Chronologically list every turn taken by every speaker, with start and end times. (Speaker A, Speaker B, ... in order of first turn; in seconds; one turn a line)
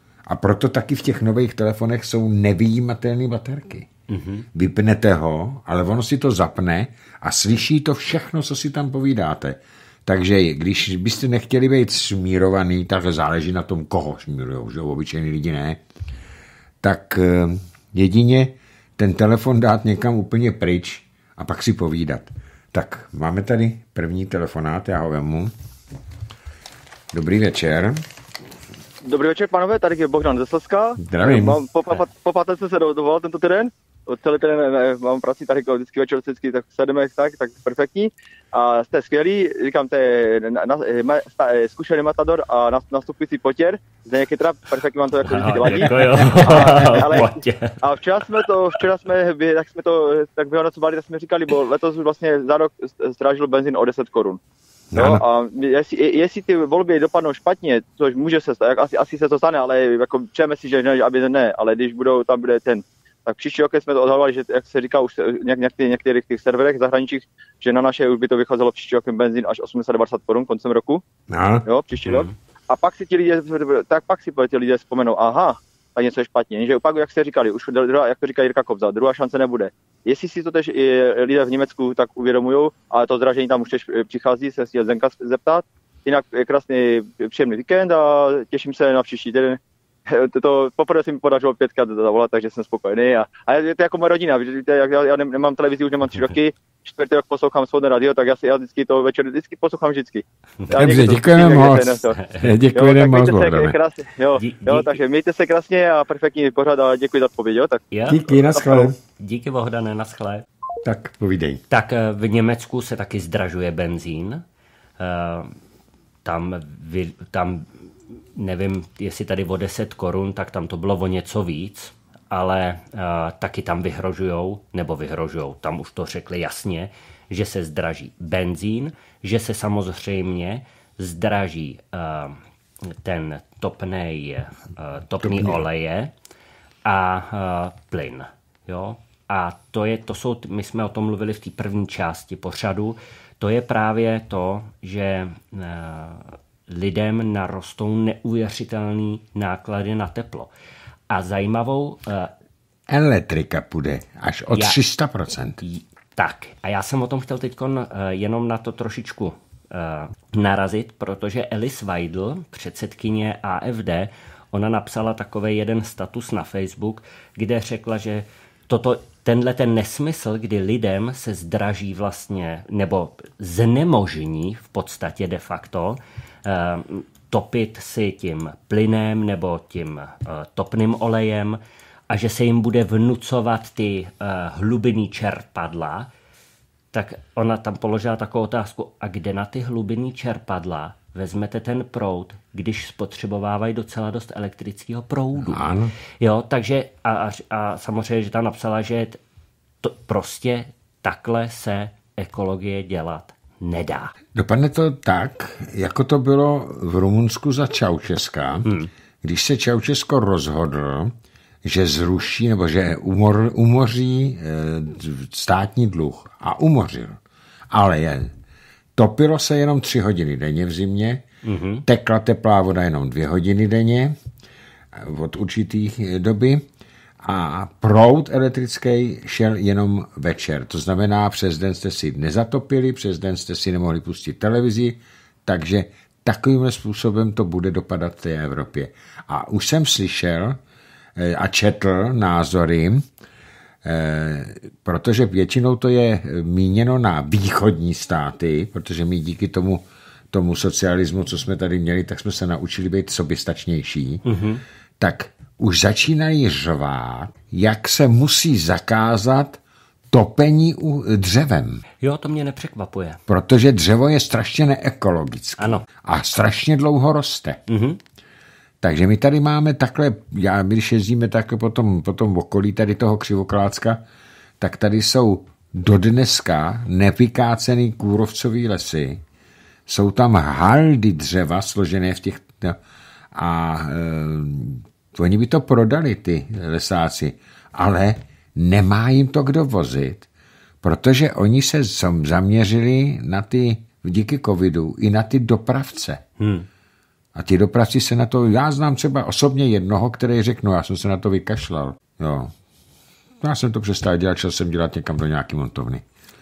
Speaker A: 0.3-3.9
Speaker B: 4.1-4.5
Speaker A: 4.5-15.8
Speaker A: 16.8-25.5
Speaker A: 27.1-28.0
Speaker C: 29.0-54.4
Speaker A: 31.0-31.6
Speaker B: 45.2-47.8
Speaker A: 45.7-46.9
Speaker B: 48.4-48.8
Speaker A: 54.9-55.2
Speaker C: 55.0-71.0
Speaker A: 71.3-71.7
Speaker C: 71.7-102.2
Speaker B: 72.1-72.3
Speaker A: 100.8-103.8
Speaker B: 102.2-102.5
Speaker C: 102.7-107.8
Speaker B: 104.4-104.9
Speaker B: 107.9-108.2
Speaker A: 108.1-109.0
Speaker B: 109.0-110.5
Speaker A: 110.8-111.6
Speaker B: 111.7-114.4
Speaker B: 115.0-115.5
Speaker B: 116.2-117.7
Speaker B: 118.3-136.1
Speaker A: 135.2-135.7
Speaker B: 136.8-150.5
Speaker B: 151.1-152.3
Speaker A: 152.9-155.6
Speaker B: 154.5-154.8
Speaker B: 155.6-186.1
Speaker B: 186.9-195.7
Speaker A: 195.4-195.9
Speaker B: 196.2-199.2
Speaker B: 199.8-204.1
Speaker A: 204.3-211.1
Speaker A: 211.6-217.2
Speaker A: 217.7-218.3
Speaker A: 219.0-221.2
Speaker B: 221.4-221.8
Speaker A: 221.8-224.2
Speaker A: 224.9-226.7
Speaker A: 227.2-240.6
Speaker A: 241.2-243.0
Speaker A: 243.8-254.2
Speaker B: 254.2-254.6
Speaker A: 255.0-259.6
Speaker A: 260.1-261.8
Speaker B: 262.0-263.2
Speaker A: 263.3-267.6
Speaker B: 265.6-265.9
Speaker B: 267.7-268.0
Speaker A: 268.8-274.0
Speaker A: 274.6-279.2
Speaker A: 279.9-282.8
Speaker A: 283.3-290.3
Speaker A: 290.8-296.2
Speaker B: 296.4-296.7
Speaker A: 297.4-302.5
Speaker A: 303.4-306.0